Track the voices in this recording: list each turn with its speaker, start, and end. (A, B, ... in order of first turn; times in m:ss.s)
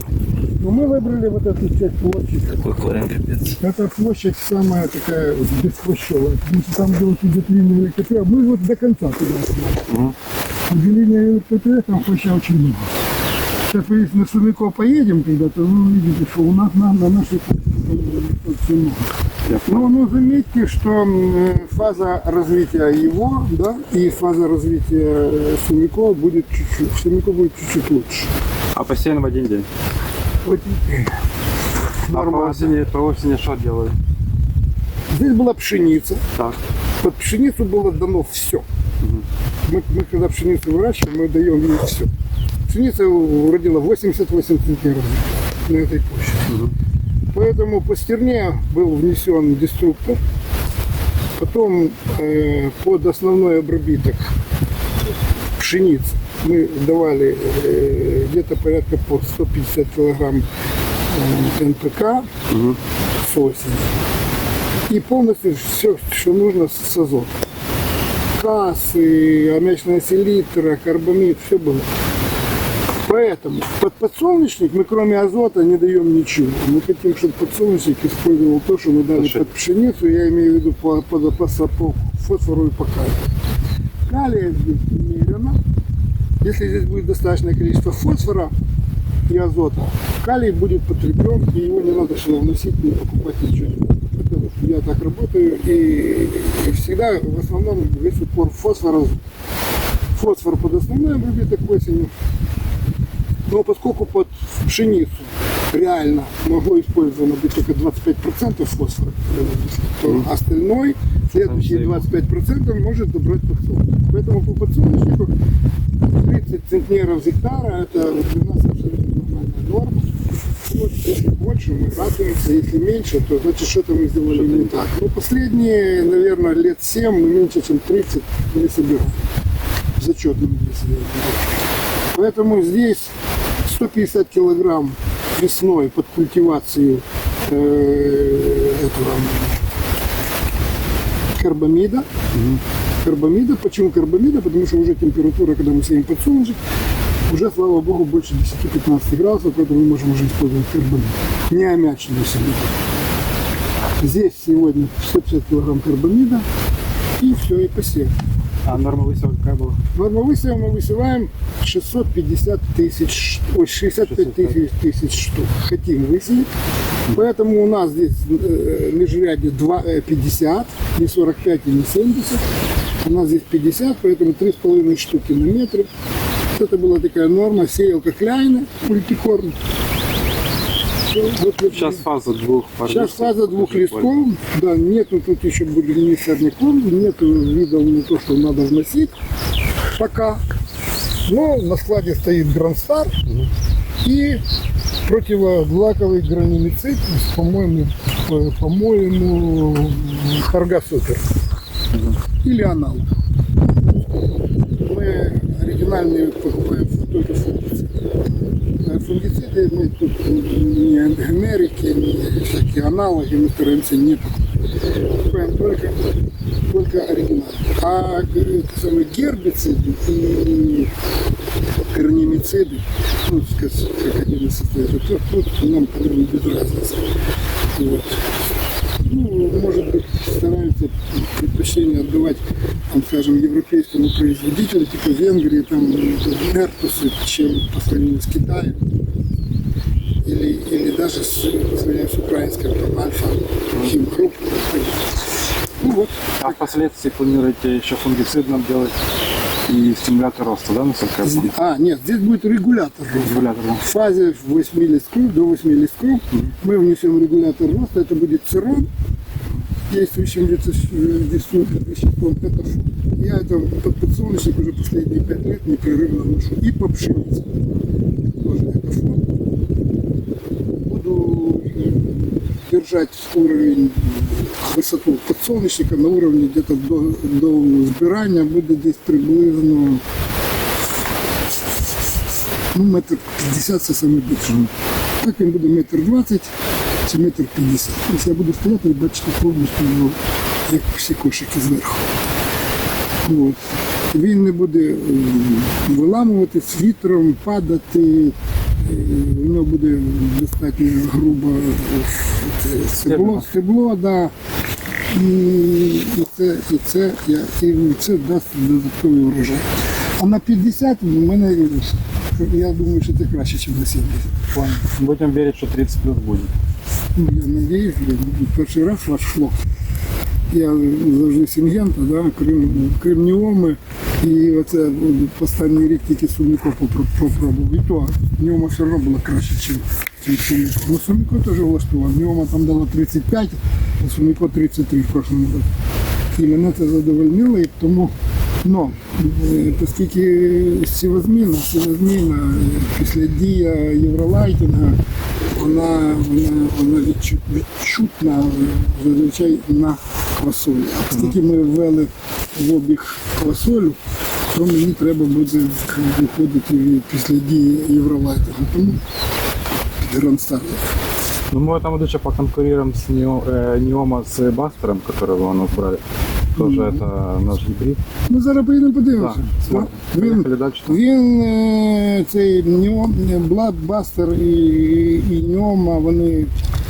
0:00.6-0:02.8 A
0:03.4-0:09.9 A
0:09.9-0:10.1 B
0:10.7-0:12.9 A
0:13.7-0:19.1 A
0:19.5-0:19.9 B
0:19.6-0:28.3 A
0:28.7-0:29.7 B
0:30.4-0:31.1 A
0:32.0-0:32.7 A
0:32.1-0:34.0 B
0:35.1-0:36.2 A
0:36.3-0:36.6 B
0:37.0-0:38.6 A
0:39.6-0:42.1 A
0:42.7-0:46.5 A
0:46.5-0:46.7 B
0:47.3-0:50.2 A
0:51.4-0:54.3 A
0:55.6-1:00.4 A
1:01.1-1:02.3 A
1:02.5-1:02.8 B
1:03.2-1:03.9 A
1:04.9-1:07.3 A
1:08.3-1:11.9 A
1:13.0-1:23.2 A
1:19.1-1:19.4 B
1:24.1-1:25.6 A
1:26.4-1:28.5 A
1:29.3-1:39.2 A
1:40.1-1:42.1 A
1:43.5-1:55.3 A
1:51.4-1:52.1 B
1:56.0-2:00.1 A
2:00.6-2:09.2 A
2:04.3-2:04.8 B
2:10.0-2:11.5 A
2:12.1-2:19.6 A
2:21.4-2:22.0 A
2:22.3-2:22.6 B
2:23.0-2:26.6 A
2:27.3-2:32.7 A
2:34.0-2:36.4 A
2:37.2-2:38.1 A
2:38.6-2:39.8 B
2:39.9-2:46.5 A
2:44.1-2:44.6 B
2:47.1-2:52.4 A
2:53.0-2:55.9 A
2:56.5-2:59.6 A
3:01.1-3:02.0 A
3:01.7-3:04.2 B
3:02.8-3:09.1 A
3:10.0-3:10.4 A
3:11.2-3:13.2 A
3:14.0-3:14.4 A
3:15.0-3:21.2 A
3:22.4-3:23.1 A
3:24.8-3:28.0 A
3:28.8-3:34.3 A
3:35.2-3:36.0 A
3:36.7-3:40.9 A
3:41.9-3:47.1 A
3:47.7-3:48.2 A
3:49.0-3:59.0 A
4:00.2-4:05.2 A
4:05.8-4:06.6 A
4:06.4-4:09.0 B
4:09.7-4:11.5 B
4:11.2-4:18.9 A
4:13.2-4:13.8 B
4:19.9-4:27.5 A
4:28.3-4:29.2 A
4:30.8-4:40.0 A
4:42.7-4:44.7 A
4:45.2-4:46.5 A
4:47.0-4:52.0 A
4:53.2-4:53.6 A
4:54.1-5:04.3 A
5:03.0-5:03.5 B
5:05.1-5:14.6 A
5:14.5-5:16.5 B
5:17.1-5:19.6 A
5:20.5-5:35.7 A
5:36.3-5:38.1 A
5:38.6-5:45.0 A
5:45.5-5:54.0 A
5:54.5-5:59.0 A
6:00.0-6:00.8 A
6:01.5-6:06.0 B
6:06.5-6:08.0 B
6:06.6-6:07.0 A
6:08.3-6:16.5 A
6:09.2-6:11.0 B